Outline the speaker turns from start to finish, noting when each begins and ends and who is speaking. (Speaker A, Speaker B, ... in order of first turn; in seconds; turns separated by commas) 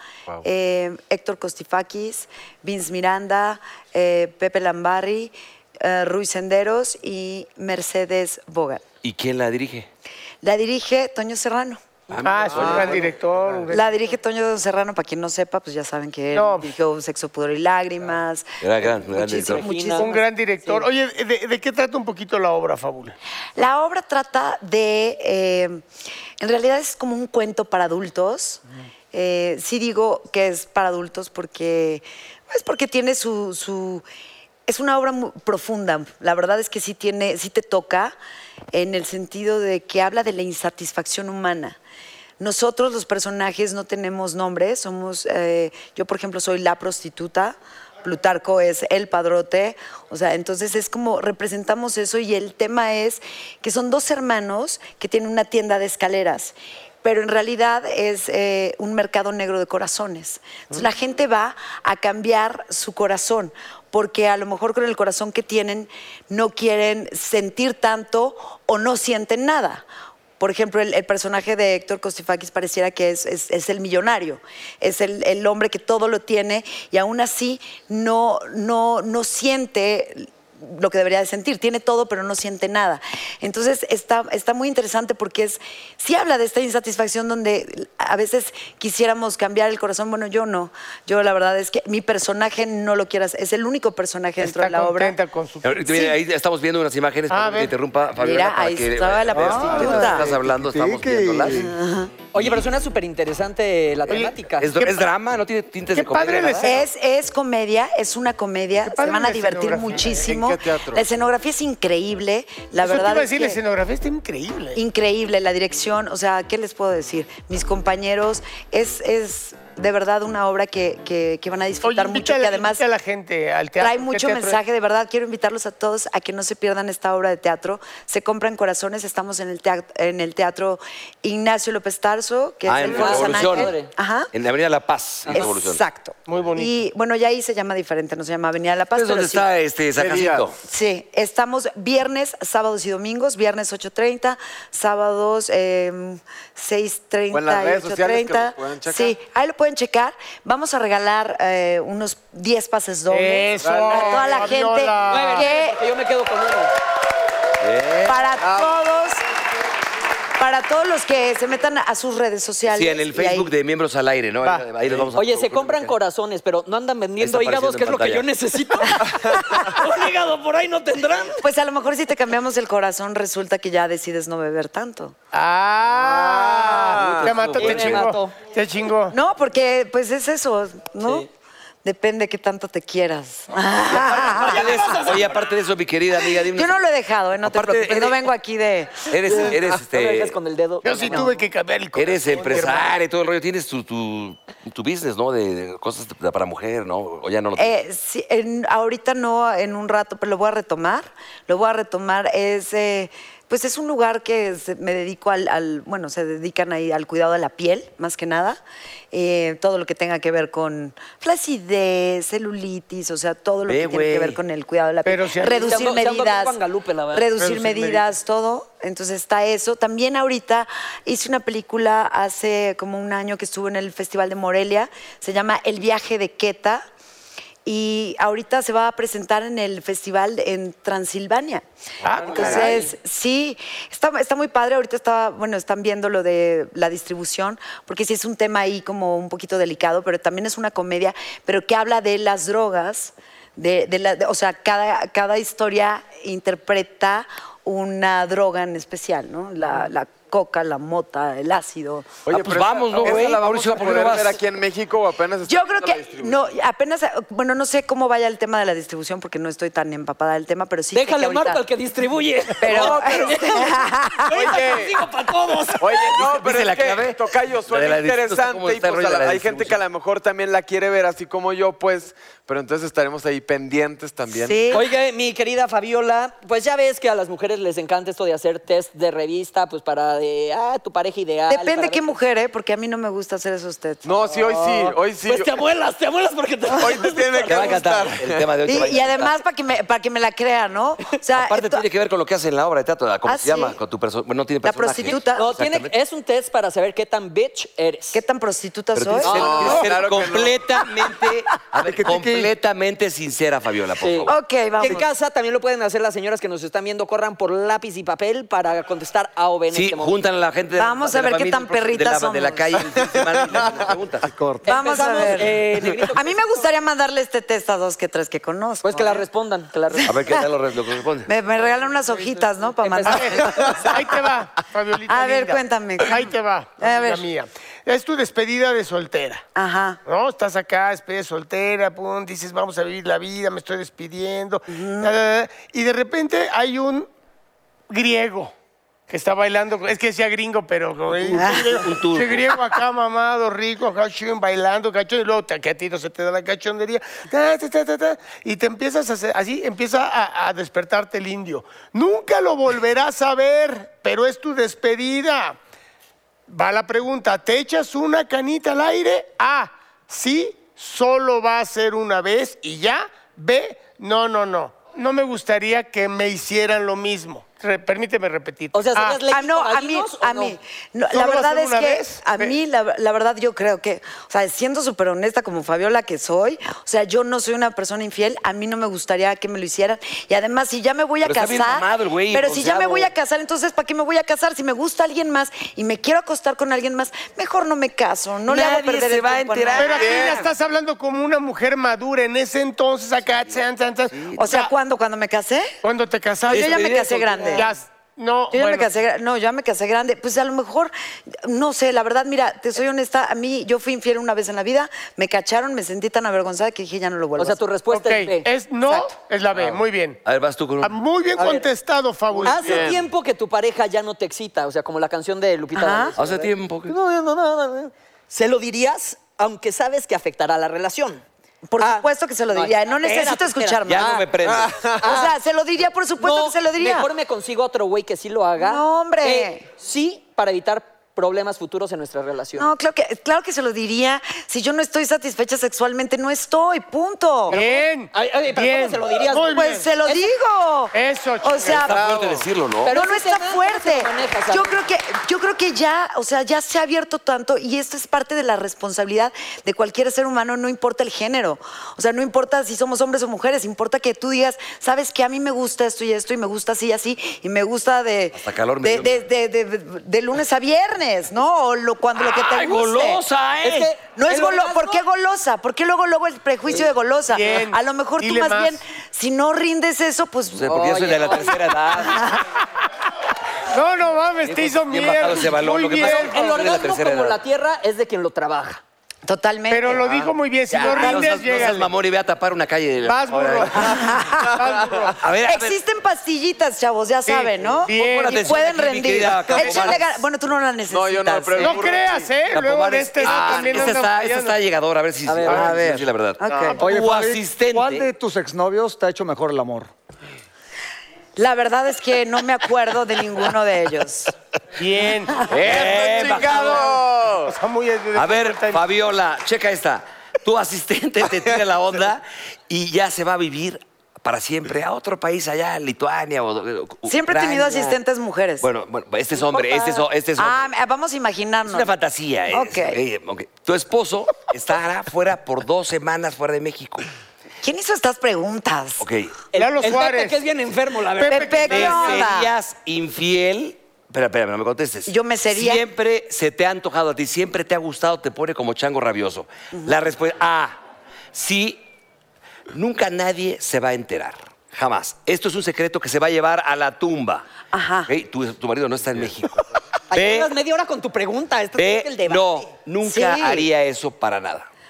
Speaker A: 0.4-8.8, Speaker B: 9.0-9.9, Speaker A: 10.4-11.8, Speaker B: 12.1-13.1, Speaker C: 12.2-13.9, Speaker D: 12.5-13.1, Speaker A: 13.7-20.2, Speaker C: 16.3-16.7, Speaker B: 18.6-19.6, Speaker E: 19.4-20.8, Speaker C: 20.0-23.1, Speaker A: 23.6-25.8, Speaker A: 26.4-34.0, Speaker A: 34.7-38.1, Speaker A: 38.7-41.8, Speaker A: 42.4-69.8, Speaker A: 70.4-95.2, Speaker C: 94.4-95.9, Speaker B: 95.6-101.7, Speaker C: 97.3-97.7, Speaker A: 98.2-100.3, Speaker F: 99.3-101.7, Speaker A: 101.5-102.1, Speaker E: 102.3-104.7, Speaker C: 104.1-104.9, Speaker B: 104.6-106.8, Speaker C: 105.9-106.8, Speaker A: 106.6-113.6, Speaker C: 108.8-110.2, Speaker D: 110.2-111.0, Speaker C: 112.8-114.8, Speaker A: 114.7-122.8, Speaker C: 121.8-124.6, Speaker A: 123.8-134.3, Speaker B: 132.7-133.8, Speaker E: 132.8-133.9, Speaker B: 134.3-135.8, Speaker A: 135.3-139.4, Speaker C: 136.2-136.7, Speaker B: 138.9-140.6, Speaker D: 139.9-140.4, Speaker A: 140.6-155.8, Speaker D: 147.3-149.1, Speaker C: 153.1-155.5, Speaker D: 153.6-154.5, Speaker E: 155.1-156.7, Speaker B: 157.6-158.2, Speaker A: 158.1-159.2, Speaker D: 158.4-158.8, Speaker A: 160.4-163.5, Speaker B: 162.7-165.9, Speaker E: 165.2-171.4, Speaker B: 167.2-168.3, Speaker A: 169.1-169.7, Speaker A: 171.4-175.1, Speaker C: 175.3-179.1, Speaker D: 176.0-177.4, Speaker B: 176.7-178.0, Speaker E: 177.5-178.3, Speaker A: 179.1-181.3, Speaker A: 181.8-184.7, Speaker E: 183.9-185.3, Speaker B: 184.1-186.8, Speaker A: 186.3-189.4, Speaker B: 187.4-188.3, Speaker B: 189.1-190.3, Speaker E: 189.3-191.3, Speaker C: 190.8-192.9, Speaker B: 191.9-197.7, Speaker A: 197.6-208.6, Speaker A: 209.1-216.6, Speaker B: 213.7-214.4, Speaker C: 215.0-215.8, Speaker E: 215.6-217.3, Speaker A: 217.1-226.8, Speaker C: 217.3-218.1, Speaker A: 227.6-231.6, Speaker C: 232.0-232.9, Speaker A: 232.2-252.2, Speaker E: 232.3-232.8, Speaker D: 252.2-256.4, Speaker B: 252.3-254.4, Speaker A: 255.5-261.6, Speaker E: 260.9-266.2, Speaker A: 262.6-264.6, Speaker D: 262.6-263.5, Speaker D: 264.3-264.9, Speaker D: 265.8-274.6, Speaker B: 266.1-269.8, Speaker A: 274.3-274.9, Speaker E: 274.7-282.1, Speaker A: 281.5-284.1, Speaker D: 284.0-285.5, Speaker E: 284.3-287.9, Speaker D: 286.8-288.4, Speaker B: 287.5-289.4, Speaker A: 288.6-291.8, Speaker B: 291.3-295.9, Speaker A: 293.2-293.8, Speaker A: 294.6-295.5, Speaker E: 295.2-298.2, Speaker A: 298.1-299.8, Speaker B: 298.9-304.4, Speaker E: 299.2-299.9, Speaker D: 299.2-300.6, Speaker F: 301.8-302.5, Speaker E: 304.0-310.1, Speaker A: 304.3-305.1, Speaker B: 309.7-314.3, Speaker A: 310.8-312.8, Speaker D: 313.0-313.9, Speaker F: 314.3-314.6, Speaker E: 314.6-316.6, Speaker A: 314.6-319.2, Speaker E: 318.8-320.1, Speaker A: 319.9-320.4, Speaker B: 320.1-321.3, Speaker A: 321.3-323.9, Speaker E: 322.8-323.5, Speaker C: 323.1-329.4, Speaker A: 325.1-327.2, Speaker A: 329.5-330.0, Speaker C: 330.1-337.1, Speaker A: 334.7-335.1, Speaker C: 337.9-338.5, Speaker C: 339.1-355.6, Speaker B: 341.1-342.6, Speaker A: 341.4-341.8, Speaker C: 356.5-369.2, Speaker E: 368.7-370.6, Speaker A: 369.3-390.0, Speaker C: 371.1-372.5, Speaker B: 381.2-383.1, Speaker B: 388.4-390.5, Speaker C: 389.8-394.7, Speaker D: 389.9-390.4, Speaker B: 394.1-394.4, Speaker A: 394.3-395.8, Speaker C: 395.8-396.8, Speaker A: 396.5-397.7, Speaker B: 396.5-397.6, Speaker C: 397.5-398.9, Speaker A: 398.5-407.6, Speaker E: 407.4-408.5, Speaker C: 407.9-410.2, Speaker B: 409.5-410.9, Speaker C: 410.8-412.9, Speaker E: 411.4-411.7, Speaker E: 412.4-421.2, Speaker D: 412.5-413.0, Speaker A: 415.7-416.1, Speaker B: 416.2-416.9, Speaker A: 421.7-424.2, Speaker E: 421.8-424.2, Speaker B: 423.9-424.8, Speaker D: 424.4-425.0, Speaker E: 425.0-425.3, Speaker A: 425.0-427.1, Speaker E: 426.2-432.7, Speaker A: 428.6-429.6, Speaker A: 432.6-437.6, Speaker E: 437.5-440.3, Speaker C: 437.5-439.9, Speaker A: 439.5-442.0, Speaker C: 440.9-441.9, Speaker B: 441.6-442.9, Speaker D: 441.9-442.4, Speaker E: 442.8-444.8, Speaker A: 442.9-463.2, Speaker B: 458.3-459.2, Speaker B: 462.1-463.9, Speaker E: 463.6-465.0, Speaker A: 464.1-471.2, Speaker C: 467.3-468.8, Speaker B: 470.6-472.3, Speaker E: 470.7-471.6, Speaker A: 472.0-472.4, Speaker C: 473.7-476.6, Speaker B: 474.4-477.4, Speaker E: 476.0-478.8, Speaker A: 479.2-480.0, Speaker C: 479.7-481.9, Speaker B: 480.0-484.1, Speaker C: 483.0-485.2, Speaker A: 483.8-484.5, Speaker D: 484.5-485.1, Speaker B: 485.2-485.8, Speaker A: 485.4-491.8, Speaker C: 487.3-488.4, Speaker B: 487.9-490.1, Speaker D: 489.5-489.9, Speaker D: 490.9-492.3, Speaker C: 491.6-494.6, Speaker B: 492.5-498.1, Speaker D: 493.2-493.7, Speaker E: 495.2-495.8, Speaker A: 496.4-496.8, Speaker C: 496.5-496.8, Speaker F: 496.7-499.9, Speaker A: 501.4-504.3, Speaker C: 504.8-505.5, Speaker B: 505.5-506.9, Speaker D: 505.5-507.5, Speaker C: 506.6-508.8, Speaker B: 508.1-518.0, Speaker A: 517.1-518.6, Speaker B: 518.6-520.7, Speaker E: 519.5-520.0, Speaker A: 520.4-521.9, Speaker B: 521.6-527.1, Speaker A: 522.5-523.0, Speaker A: 527.6-529.0, Speaker B: 529.0-529.3, Speaker E: 529.5-532.3, Speaker C: 529.5-530.4, Speaker C: 531.1-532.1, Speaker A: 531.3-532.5, Speaker B: 531.6-540.8, Speaker A: 535.1-535.8, Speaker B: 541.3-541.8, Speaker B: 542.7-547.5, Speaker A: 547.7-548.1, Speaker B: 548.1-550.5, Speaker E: 550.1-552.7, Speaker B: 551.8-554.7, Speaker A: 553.0-553.7